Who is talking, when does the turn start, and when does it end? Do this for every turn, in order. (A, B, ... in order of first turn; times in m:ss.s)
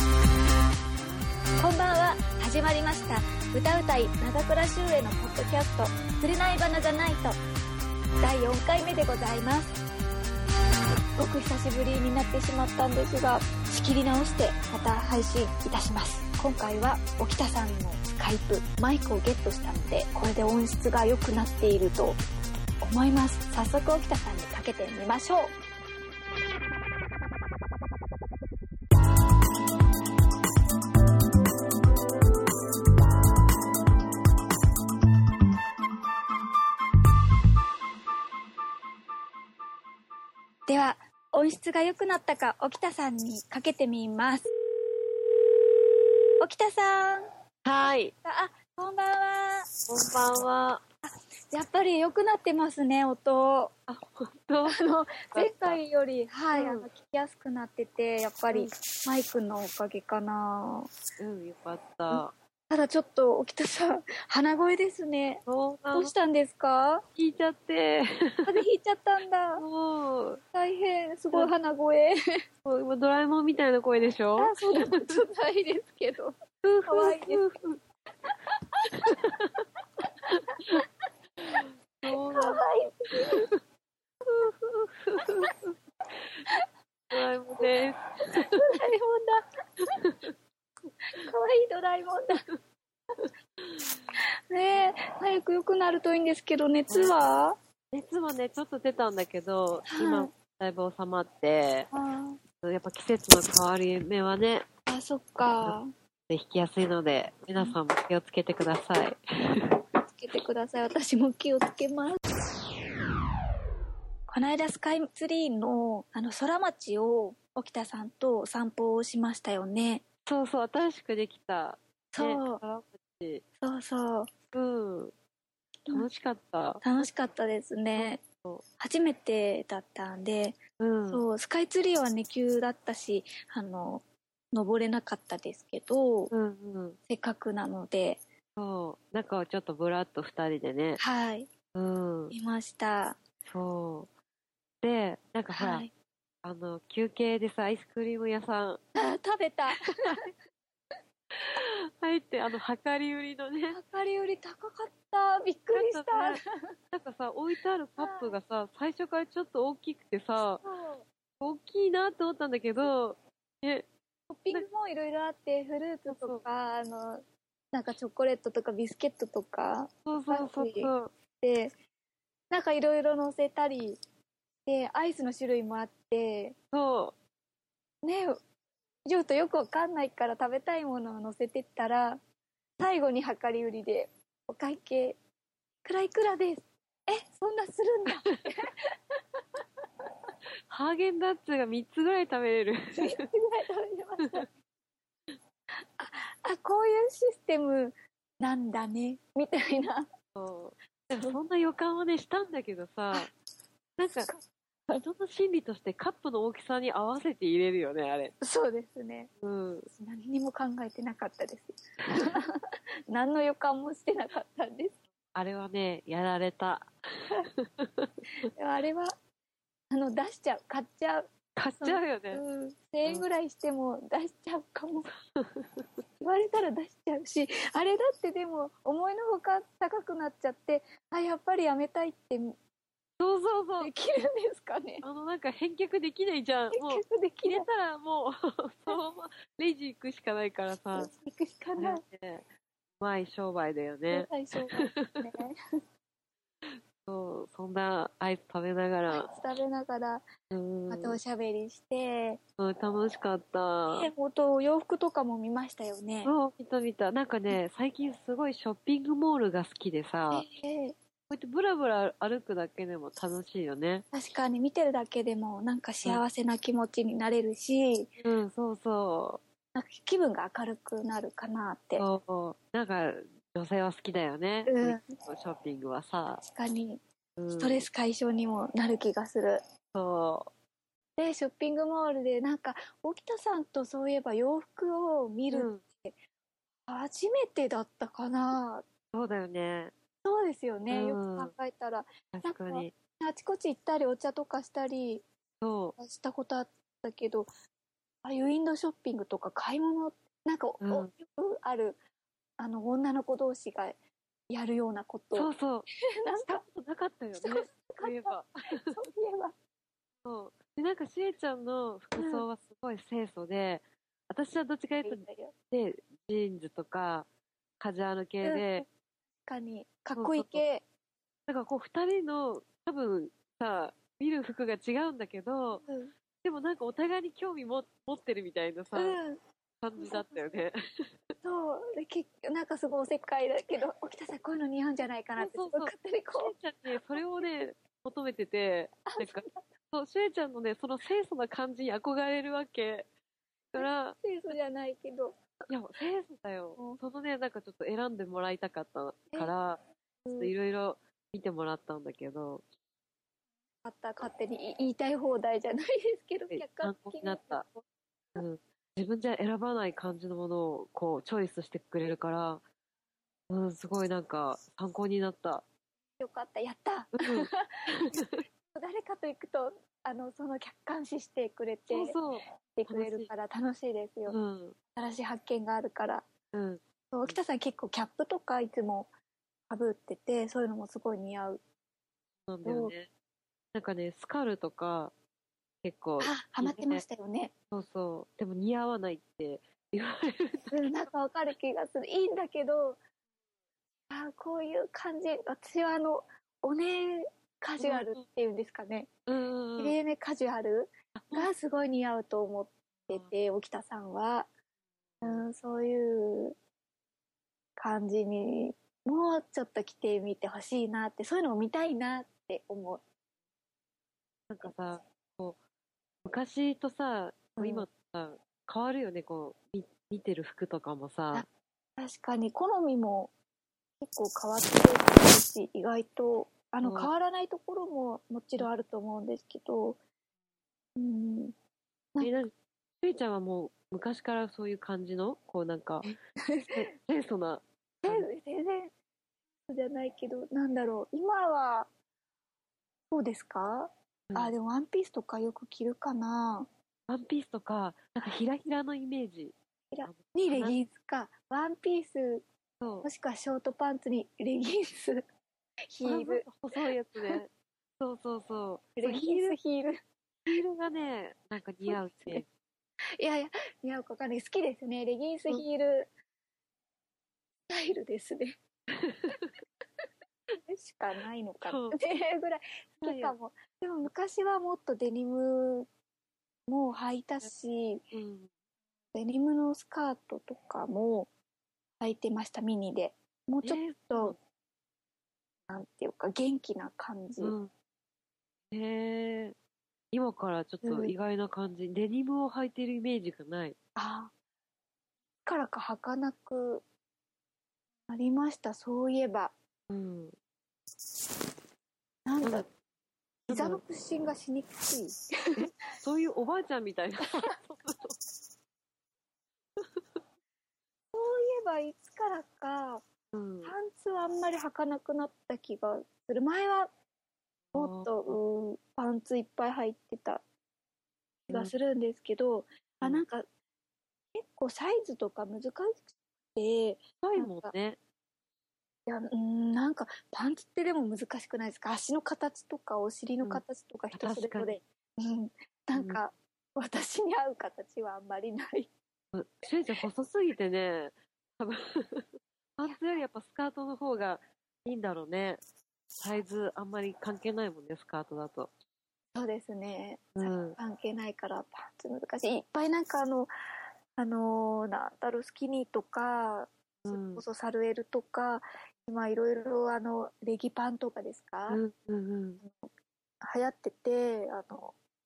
0:01.6-0:07.4 A
0:08.2-0:09.8 A
0:11.2-0:22.2 A
0:22.8-0:25.5 A
0:40.7-0:44.5 A
0:46.4-0:47.3 A
0:47.6-0:48.1 B
0:47.8-0:49.7 A
0:49.9-0:50.8 B
0:51.0-0:53.7 A
0:53.9-0:54.8 B
0:54.7-1:00.9 A
0:55.3-0:55.8 B
0:56.5-0:56.9 B
1:01.2-1:02.3 B
1:02.1-1:07.0 A
1:05.4-1:06.1 B
1:07.2-1:08.5 B
1:08.4-1:09.6 A
1:09.6-1:10.4 B
1:10.5-1:12.1 A
1:12.6-1:15.2 B
1:14.4-1:16.3 A
1:16.6-1:17.8 B
1:16.9-1:17.4 A
1:18.3-1:19.2 A
1:18.9-1:19.6 B
1:20.3-1:20.8 A
1:20.3-1:20.8 B
1:21.4-1:22.6 B
1:22.1-1:23.5 A
1:23.1-1:23.6 B
1:24.2-1:24.5 A
1:24.4-1:25.7 B
1:27.1-1:28.7 B
1:28.5-1:30.0 A
1:30.0-1:30.3 B
1:31.1-1:32.4 A
1:33.6-1:34.0 B
1:34.1-1:37.6 A
1:36.9-1:37.1 B
1:37.9-1:41.9 B
1:39.8-1:40.3 A
1:41.9-1:42.4 A
1:42.6-1:44.6 B
1:44.9-1:45.9 A
1:46.3-1:49.8 B
1:50.1-1:52.2 A
1:54.3-2:00.0 A
2:00.2-2:03.4 B
2:02.1-2:02.6 A
2:03.6-2:04.3 A
2:04.5-2:05.1 B
2:05.9-2:07.0 B
2:06.8-2:08.2 A
2:07.9-2:08.6 B
2:08.8-2:10.6 A
2:10.8-2:11.2 B
2:11.1-2:16.3 A
2:16.3-2:17.0 B
2:17.1-2:18.2 A
2:18.6-2:21.0 B
2:21.0-2:21.5 A
2:21.7-2:22.3 B
2:22.3-2:23.2 A
2:23.4-2:24.1 B
2:24.8-2:25.9 B
2:25.5-2:25.9 A
2:26.4-2:28.8 B
2:28.9-2:30.3 A
2:31.3-2:33.8 B
2:33.7-2:36.4 A
2:35.7-2:36.4 B
2:36.9-2:40.6 B
2:38.0-2:38.3 A
2:40.6-2:41.0 A
2:41.4-2:43.8 B
2:44.3-2:51.7 A
2:46.1-2:46.4 B
2:50.0-2:51.1 B
2:52.5-2:54.0 A
2:54.6-2:56.6 A
2:56.7-2:57.2 B
2:58.0-2:58.4 A
2:59.0-3:02.2 A
3:02.8-3:05.2 A
3:05.8-3:08.9 A
3:10.7-3:13.2 B
3:12.9-3:14.5 A
3:16.0-3:20.1 A
3:20.4-3:23.3 B
3:24.0-3:24.3 B
3:24.3-3:25.0 A
3:24.9-3:28.3 B
3:28.4-3:29.3 A
3:29.4-3:29.9 B
3:29.9-3:35.0 A
3:35.3-3:38.5 B
3:38.5-3:39.1 A
3:39.9-3:41.3 A
3:41.6-3:42.4 B
3:41.8-3:45.1 A
3:45.0-3:46.0 B
3:46.2-3:52.6 A
3:53.2-3:53.9 B
3:53.8-3:55.0 A
3:55.0-4:01.1 B
3:56.7-3:57.7 A
4:00.9-4:02.0 A
4:01.8-4:02.4 B
4:03.0-4:05.3 B
4:04.1-4:05.6 A
4:06.7-4:09.3 B
4:09.1-4:10.2 A
4:10.5-4:11.2 B
4:10.9-4:12.4 A
4:12.6-4:14.1 B
4:13.9-4:16.3 A
4:16.2-4:20.4 B
4:20.3-4:20.9 A
4:21.3-4:24.0 B
4:24.1-4:28.1 A
4:28.2-4:29.4 B
4:29.7-4:32.0 A
4:32.0-4:36.4 B
4:34.7-4:35.1 A
4:36.4-4:37.0 A
4:37.4-4:37.8 B
4:37.6-4:39.6 A
4:39.9-4:40.5 B
4:41.2-4:46.2 A
4:45.5-4:45.8 B
4:46.9-4:48.8 A
4:49.1-4:49.9 B
4:50.2-4:55.2 A
4:50.9-4:51.5 B
4:52.3-4:52.9 B
4:55.6-4:56.0 B
4:56.0-4:57.5 A
4:58.2-5:02.0 A
5:00.8-5:01.1 B
5:02.6-5:04.0 A
5:04.5-5:05.5 A
5:05.3-5:05.9 B
5:06.2-5:06.6 A
5:06.5-5:09.0 B
5:07.4-5:09.5 A
5:10.2-5:17.3 B
5:12.1-5:12.4 A
5:15.0-5:15.5 A
5:17.8-5:18.8 B
5:18.4-5:18.8 A
5:19.4-5:20.8 A
5:20.2-5:20.6 B
5:21.5-5:25.8 B
5:25.8-5:26.1 A
5:26.4-5:29.2 B
5:28.9-5:29.4 A
5:29.8-5:30.8 B
5:30.0-5:30.5 A
5:31.4-5:37.2 A
5:35.4-5:43.1 B
5:39.1-5:39.6 A
5:43.7-5:44.2 B
5:43.8-5:45.4 A
5:45.7-5:49.8 B
5:46.8-5:47.0 A
5:50.2-5:50.5 A
5:50.4-5:52.6 B
5:53.8-5:57.8 A
5:56.5-5:57.6 B
5:58.4-6:02.6 B
6:03.5-6:05.6 B
6:06.2-6:08.2 A
6:07.2-6:08.4 B
6:08.7-6:14.4 A
6:11.9-6:13.3 B
6:14.2-6:14.8 B
6:14.9-6:16.2 A
6:16.5-6:17.4 B
6:17.1-6:19.1 A
6:19.7-6:21.6 A
6:22.4-6:23.1 B
6:22.6-6:22.9 A
6:23.7-6:25.1 B
6:25.8-6:27.0 B
6:26.2-6:27.5 A
6:27.7-6:30.9 B
6:30.7-6:33.0 A
6:34.1-6:39.1 A
6:37.8-6:38.2 B
6:39.3-6:40.0 B
6:39.8-6:44.5 A
6:41.2-6:41.5 B
6:45.2-6:46.5 A
6:47.8-6:53.0 A
6:54.5-6:55.6 B
6:56.2-7:01.4 B
6:57.6-6:57.9 A
7:01.3-7:03.3 A
7:04.0-7:10.0 A
7:06.8-7:07.1 B
7:11.0-7:11.5 A
7:12.2-7:16.1 B
7:16.0-7:16.7 A
7:16.7-7:18.2 B
7:18.0-7:18.9 A
7:19.7-7:21.9 A
7:23.1-7:26.7 A
7:27.1-7:30.8 B
7:29.9-7:32.4 A
7:32.8-7:33.1 B
7:33.0-7:35.2 A
7:35.9-7:37.4 A
7:36.0-7:39.6 B
7:39.0-7:40.0 A
7:40.4-7:42.4 B
7:41.8-7:42.4 A
7:43.2-7:46.1 A
7:47.7-7:48.5 A
7:48.9-7:49.6 B
7:50.6-7:55.9 A
7:51.6-7:52.0 B
7:53.0-7:53.4 B
7:56.7-7:58.0 A
7:58.1-7:58.5 B
7:59.1-8:01.3 A
8:02.0-8:04.4 A
8:03.6-8:04.4 B
8:05.7-8:07.5 A
8:07.4-8:07.7 B
8:08.7-8:09.5 B
8:10.1-8:13.8 B
8:10.8-8:11.1 A
8:14.0-8:14.3 A
8:15.4-8:16.8 A
8:18.1-8:19.5 A
8:19.9-8:20.3 B
8:22.2-8:22.7 A
8:22.4-8:22.7 B
8:23.5-8:23.8 B
8:23.5-8:25.3 A
8:25.6-8:28.2 B
8:29.8-8:30.2 B
8:31.1-8:33.0 A
8:33.3-8:33.7 B
8:33.6-8:36.9 A
8:37.7-8:38.4 B
8:37.7-8:40.4 A
8:41.5-8:41.7 B
8:41.5-8:43.4 A
8:44.3-8:47.7 A
8:47.2-8:48.0 B
8:49.1-8:58.9 A
8:53.4-8:54.8 B
8:55.9-8:56.2 B
8:59.3-9:05.6 B
9:06.2-9:08.7 B
9:09.3-9:13.5 A
9:10.4-9:10.8 B
9:14.2-9:21.8 A
9:17.0-9:17.4 B
9:21.7-9:22.6 B
9:22.6-9:22.9 A
9:23.4-9:24.9 A